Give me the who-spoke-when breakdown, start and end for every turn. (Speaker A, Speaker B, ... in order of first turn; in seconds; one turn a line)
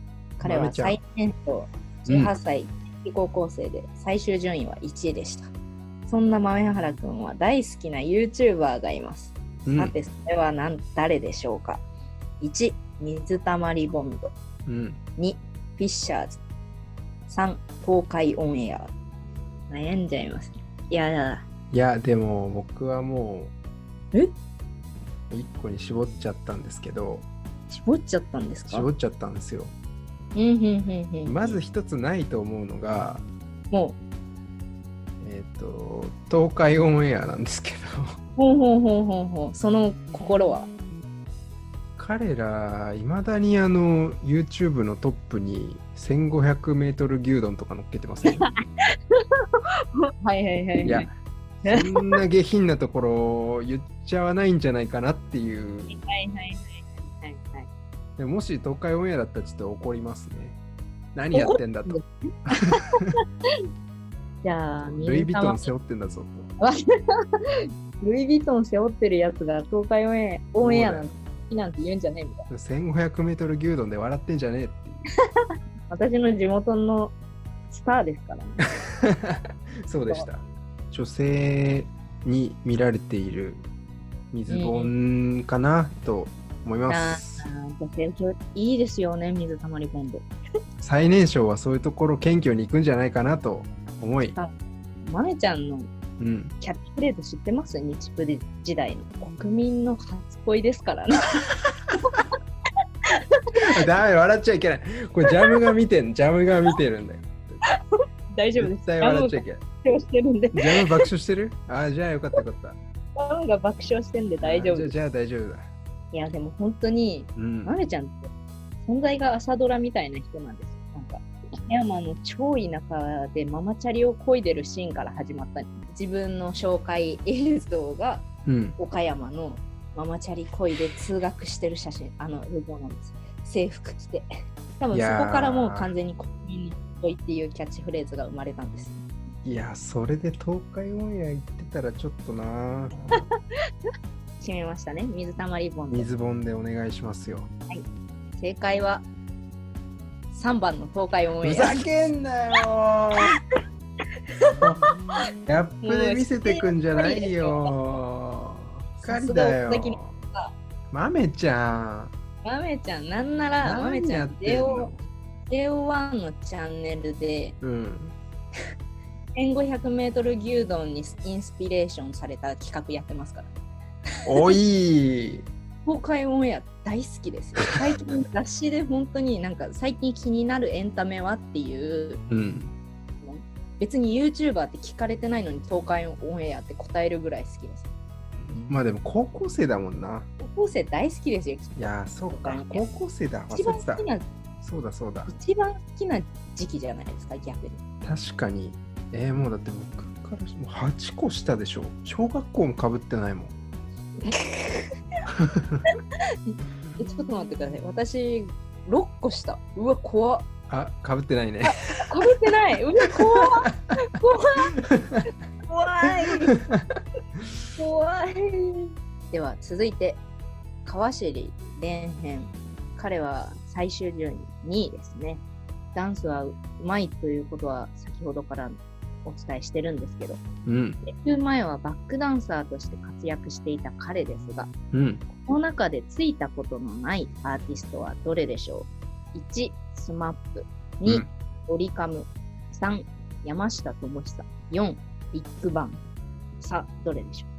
Speaker A: 0.4-5.5
Speaker B: 0.4-1.0
Speaker B: 2.1-2.3
Speaker A: 6.1-11.8
Speaker B: 9.7-9.9
Speaker A: 12.4-14.3
Speaker B: 14.7-15.0
Speaker A: 15.2-16.4
Speaker A: 17.3-18.9
Speaker A: 19.7-21.4
Speaker B: 21.7-23.5
Speaker B: 25.3-27.3
Speaker A: 27.7-28.9
Speaker B: 28.7-29.7
Speaker A: 30.4-31.6
Speaker B: 31.2-33.3
Speaker A: 33.7-34.0
Speaker B: 35.2-38.2
Speaker A: 38.4-40.7
Speaker B: 42.0-48.5
Speaker A: 48.2-48.6
Speaker A: 49.1-49.4
Speaker A: 50.0-51.1
Speaker B: 50.8-56.0
Speaker A: 51.6-52.2
Speaker A: 55.9-57.7
Speaker B: 58.2-60.6
Speaker B: 61.1-62.0
Speaker A: 61.3-63.1
Speaker B: 62.5-63.1
Speaker A: 64.4-65.7
Speaker B: 64.8-66.5
Speaker A: 68.0-72.5
Speaker B: 70.6-71.1
Speaker B: 72.5-75.0
Speaker A: 75.9-77.2
Speaker A: 77.7-78.7
Speaker B: 79.0-83.7
Speaker B: 84.3-87.5
Speaker A: 84.5-84.9
Speaker A: 86.9-90.3
Speaker B: 90.8-94.4
Speaker A: 95.0-95.9
Speaker B: 96.2-96.5
Speaker A: 96.6-101.4
Speaker A: 103.1-103.8
Speaker B: 103.6-107.6
Speaker A: 108.3-110.8
Speaker B: 108.6-109.6
Speaker B: 110.5-112.8
Speaker A: 113.2-114.9
Speaker B: 114.4-115.7
Speaker A: 116.1-118.3
Speaker B: 117.4-117.8
Speaker A: 118.8-128.3
Speaker B: 128.5-128.8
Speaker A: 128.8-134.3
Speaker A: 134.8-139.0
Speaker B: 134.9-135.9
Speaker B: 139.4-143.3
Speaker A: 144.4-146.1
Speaker B: 145.9-147.5
Speaker A: 148.4-149.1
Speaker A: 150.3-151.9
Speaker B: 151.4-153.3
Speaker A: 154.4-154.9
Speaker B: 154.6-154.9
Speaker B: 155.4-160.2
Speaker A: 155.8-157.7
Speaker A: 159.0-160.6
Speaker B: 160.9-162.1
Speaker A: 162.4-164.9
Speaker B: 163.6-165.0
Speaker A: 165.5-167.6
Speaker B: 167.6-168.2
Speaker A: 169.3-173.5
Speaker B: 174.3-175.5
Speaker A: 175.9-182.2
Speaker B: 182.3-182.7
Speaker A: 183.2-187.9
Speaker B: 188.4-190.3
Speaker A: 190.4-192.9
Speaker B: 191.8-194.1
Speaker A: 193.5-194.3
Speaker B: 194.6-195.3
Speaker A: 195.3-197.8
Speaker B: 198.0-203.5
Speaker A: 204.2-204.9
Speaker B: 205.3-205.8
Speaker A: 206.5-210.5
Speaker B: 210.7-212.0
Speaker A: 211.7-214.8
Speaker B: 214.8-215.2
Speaker A: 215.7-216.6
Speaker B: 216.5-217.0
Speaker A: 217.8-220.2
Speaker A: 220.8-225.4
Speaker A: 225.9-230.4
Speaker B: 230.7-231.0
Speaker A: 231.0-234.7
Speaker B: 234.9-235.2
Speaker A: 235.4-246.0
Speaker A: 246.6-247.5